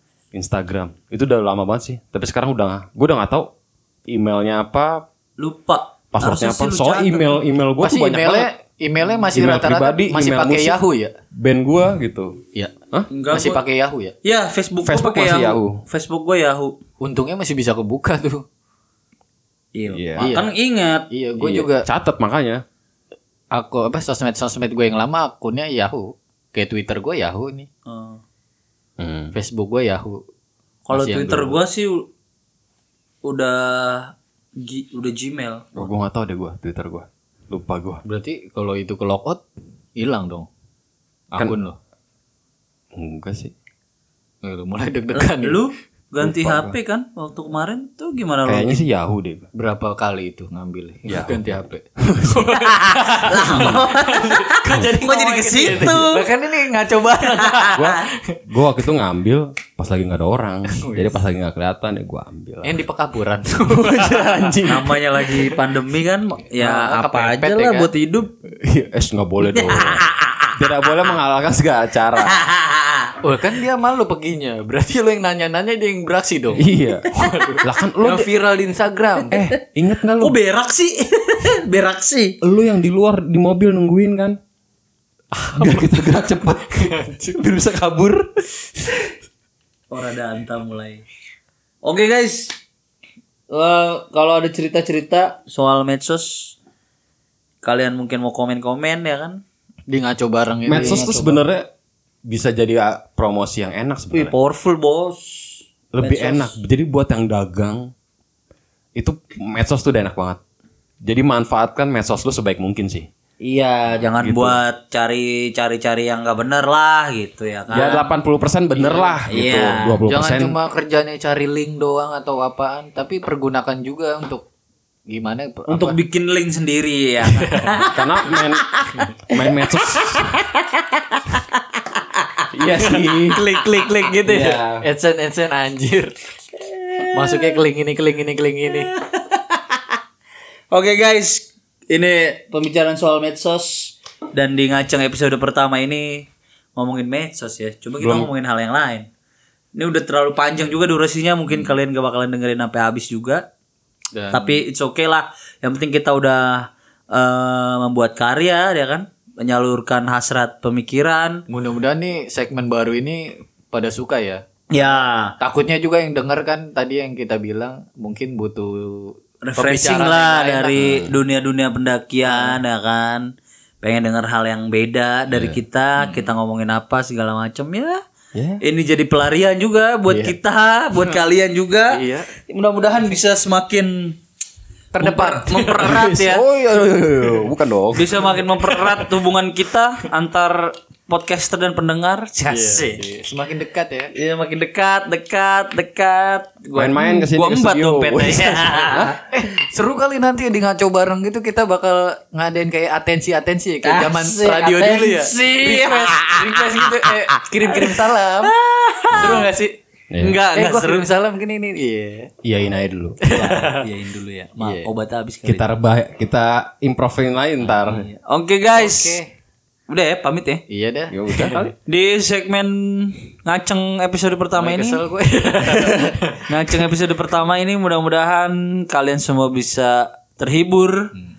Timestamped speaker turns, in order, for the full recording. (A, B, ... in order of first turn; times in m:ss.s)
0:00.3-0:03.5 A
0:04.1-0:05.1 A
0:05.4-0:07.4 B
0:06.1-0:08.5 A
0:07.8-0:11.2 C
0:09.3-0:10.8 A
0:11.3-0:12.4 A
0:13.1-0:13.6 B
0:13.3-0:14.2 C
0:14.2-0:16.8 B
0:14.8-0:15.8 A
0:17.0-0:18.4 C
0:19.8-0:21.1 B
0:19.9-0:20.3 A
0:20.2-0:20.5 C
0:21.1-0:21.9 C
0:21.4-0:22.6 A
0:23.5-0:27.7 C
0:27.9-0:28.2 B
0:29.0-0:29.3 A
0:29.3-0:30.2 C
0:30.9-0:32.1 B
0:30.9-0:31.6 C
0:33.2-0:35.9 B
0:35.8-0:38.0 A
0:38.0-0:39.4 C
0:40.0-0:40.5 C
0:41.3-0:41.8 C
0:43.0-0:43.5 A
0:44.4-0:45.6 C
0:45.1-0:48.8 B
0:46.2-0:46.8 A
0:48.4-0:49.5 A
0:49.6-0:58.4 C
0:51.1-0:52.5 A
0:52.5-0:56.3 B
0:53.5-0:53.8 A
0:57.2-0:58.0 B
0:57.7-1:02.8 A
1:00.7-1:01.1 C
1:02.6-1:04.6 C
1:03.7-1:05.2 A
1:04.6-1:08.3 B
1:06.6-1:07.9 C
1:08.6-1:12.5 A
1:09.5-1:10.6 B
1:12.2-1:13.1 B
1:13.2-1:19.4 C
1:16.6-1:18.3 A
1:19.3-1:20.4 A
1:20.2-1:22.4 B
1:22.4-1:24.4 A
1:25.4-1:25.8 C
1:25.5-1:28.3 A
1:26.8-1:27.3 C
1:29.9-1:31.0 B
1:31.8-1:32.6 B
1:33.5-1:36.6 B
1:37.6-1:39.4 B
1:39.9-1:41.4 C
1:40.7-1:41.7 A
1:40.7-1:41.4 B
1:42.3-1:44.3 A
1:44.1-1:46.6 B
1:45.9-1:47.9 A
1:49.0-1:50.4 A
1:51.0-1:53.1 A
1:53.4-1:58.0 B
1:54.2-1:54.6 A
1:57.7-2:00.6 A
1:57.7-1:58.0 C
1:59.2-2:00.0 B
2:00.1-2:04.4 C
2:05.1-2:06.0 C
2:05.7-2:09.0 B
2:07.3-2:07.9 C
2:07.9-2:08.7 A
2:09.3-2:10.4 A
2:09.9-2:12.4 B
2:12.5-2:13.4 A
2:12.8-2:16.2 C
2:14.2-2:14.8 A
2:16.7-2:17.6 B
2:17.1-2:18.9 C
2:18.7-2:19.8 B
2:20.7-2:29.1 B
2:28.0-2:28.3 A
2:29.8-2:33.4 B
2:34.2-2:34.6 C
2:34.3-2:41.4 B
2:41.5-2:44.4 C
2:44.7-2:45.4 B
2:45.4-2:51.0 C
2:49.4-2:53.3 B
2:50.8-2:51.1 A
2:52.2-2:52.6 C
2:53.8-2:58.0 B
2:55.3-2:55.6 A
2:58.3-2:58.6 A
2:58.6-3:04.2 B
3:00.1-3:00.4 A
3:01.9-3:02.3 C
3:04.9-3:06.2 C
3:05.0-3:06.5 B
3:05.9-3:08.1 A
3:08.0-3:13.0 B
3:08.6-3:09.0 C
3:12.5-3:14.1 C
3:14.1-3:19.2 B
3:16.8-3:19.2 A
3:19.3-3:28.5 C
3:23.8-3:29.5 B
3:29.1-3:29.4 A
3:29.1-3:29.8 C
3:30.1-3:30.4 A
3:30.2-3:31.1 B
3:30.5-3:32.3 C
3:32.4-3:33.2 A
3:33.2-3:33.9 C
3:33.3-3:35.7 B
3:34.6-3:34.9 C
3:35.4-3:38.1 A
3:37.7-3:39.2 B
3:38.8-3:39.3 C
3:39.9-3:40.6 B
3:40.7-3:41.7 C
3:41.1-3:41.6 A
3:41.7-3:45.0 B
3:44.6-3:46.5 C
3:45.6-3:46.2 A
3:46.5-3:51.1 B